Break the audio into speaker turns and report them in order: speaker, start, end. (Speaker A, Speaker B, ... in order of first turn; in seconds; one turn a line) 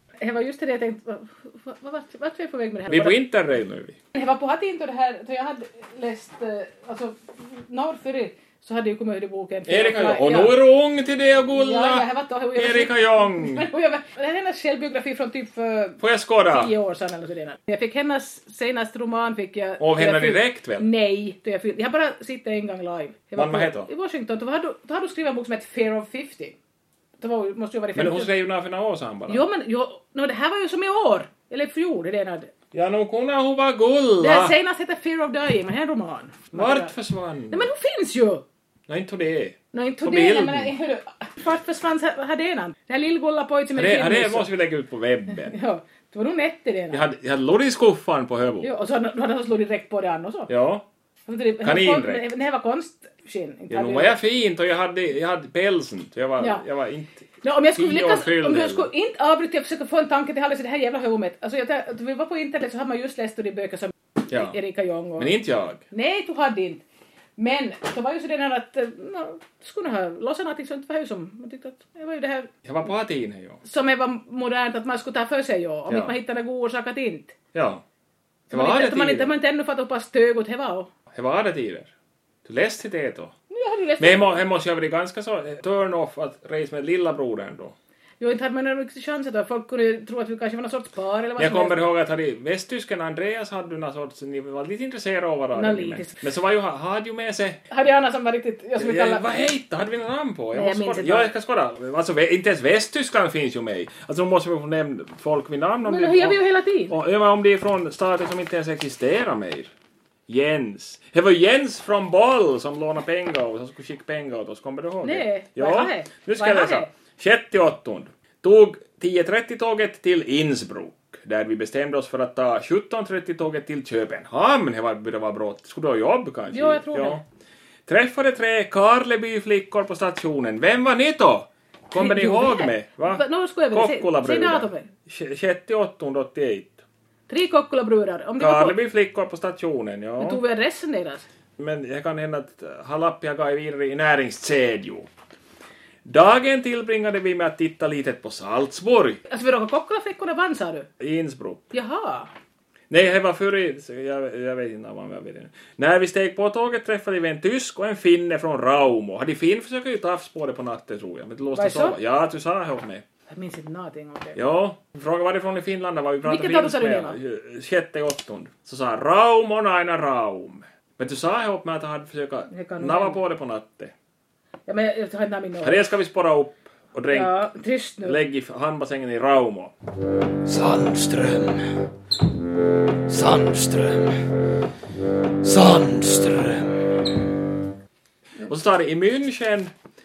Speaker A: 0.2-3.2
Speaker B: 2.9-4.0
Speaker A: 4.1-10.6
Speaker B: 9.7-13.7
Speaker A: 11.5-26.6
Speaker B: 16.0-16.7
Speaker B: 19.8-20.9
Speaker B: 23.4-23.9
Speaker A: 27.2-28.3
Speaker B: 27.9-29.4
Speaker A: 29.3-32.5
Speaker B: 32.7-34.5
Speaker A: 34.2-36.9
Speaker B: 36.5-37.7
Speaker A: 37.5-38.4
Speaker B: 38.9-40.7
Speaker A: 39.7-44.5
Speaker B: 43.7-45.6
Speaker A: 45.4-47.1
Speaker B: 46.9-48.7
Speaker A: 48.6-50.5
Speaker B: 50.5-50.9
Speaker A: 51.3-54.2
Speaker B: 51.6-52.2
Speaker B: 53.7-58.9
Speaker A: 57.4-65.3
Speaker B: 64.3-64.6
Speaker B: 65.2-65.8
Speaker A: 65.9-66.8
Speaker A: 67.4-72.5
Speaker B: 72.7-73.6
Speaker A: 73.7-77.3
Speaker B: 75.9-76.1
Speaker B: 77.5-77.8
Speaker B: 78.5-79.3
Speaker A: 78.5-80.9
Speaker B: 81.1-81.9
Speaker B: 82.5-83.3
Speaker A: 83.5-84.4
Speaker B: 84.0-87.8
Speaker A: 88.2-91.8
Speaker B: 91.4-97.6
Speaker A: 95.5-96.2
Speaker A: 97.7-99.4
Speaker B: 98.8-109.7
Speaker A: 100.5-101.3
Speaker A: 105.8-106.9
Speaker B: 110.3-127.2
Speaker A: 115.0-116.9
Speaker A: 126.5-127.2
Speaker B: 127.9-136.8
Speaker A: 131.9-134.9
Speaker A: 137.3-138.8
Speaker B: 138.4-140.4
Speaker A: 140.2-141.3
Speaker B: 141.6-145.1
Speaker B: 146.1-149.2
Speaker A: 149.3-150.9
Speaker B: 151.0-151.7
Speaker A: 151.7-152.3
Speaker B: 152.9-163.0
Speaker A: 161.6-162.0
Speaker A: 163.3-164.4
Speaker B: 164.3-173.9
Speaker A: 166.2-167.2
Speaker A: 172.5-173.2
Speaker A: 174.7-175.9
Speaker B: 175.6-177.4
Speaker A: 177.1-178.2
Speaker B: 178.0-179.7
Speaker C: 180.4-181.9
Speaker C: 183.1-184.3
Speaker C: 185.4-187.5
Speaker B: 188.4-189.7